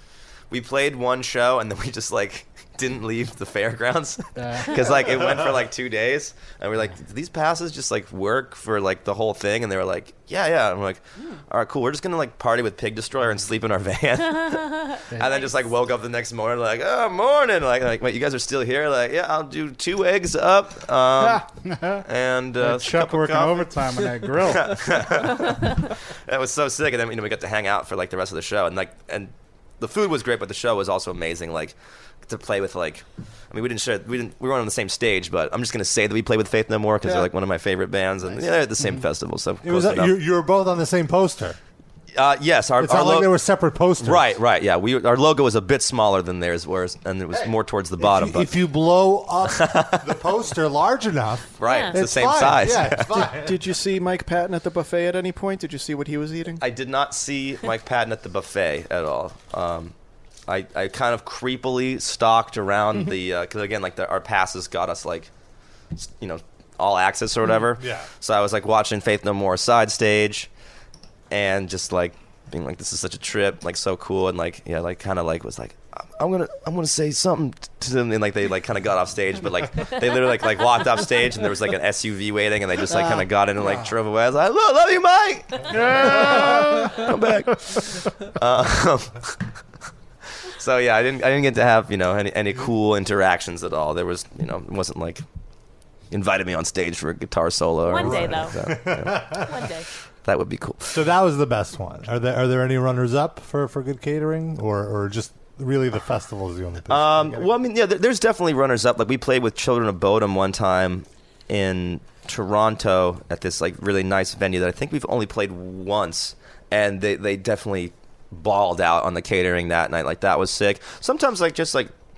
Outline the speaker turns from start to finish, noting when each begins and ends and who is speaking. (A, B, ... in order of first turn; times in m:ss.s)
0:00.5-0:21.4 A
0:04.4-0:05.1 B
0:15.1-0:15.4 B
0:15.3-0:15.6 C
0:21.2-0:22.0 B
0:22.0-0:23.7 A
0:22.6-0:25.1 B
0:24.3-0:40.1 A
0:39.6-0:41.6 D
0:42.1-0:43.4 A
0:42.8-0:44.3 D
0:44.0-0:48.5 A
0:47.3-0:53.7 D
0:49.5-0:50.1 A
0:51.6-0:53.2 A
0:51.6-0:52.0 C
0:53.3-0:56.6 E
0:56.6-0:59.9 A
1:00.5-1:05.3 A
1:05.9-1:10.5 A
1:07.7-1:08.1 D
1:11.3-1:29.4 A
1:22.9-1:23.2 E
1:25.7-1:27.4 B
1:30.4-1:35.2 A
1:36.1-1:39.6 A
1:37.8-1:38.5 C
1:38.0-1:39.5 D
1:39.4-1:39.9 C
1:40.2-1:41.0 A
1:40.9-1:47.5 D
1:46.9-2:01.9 A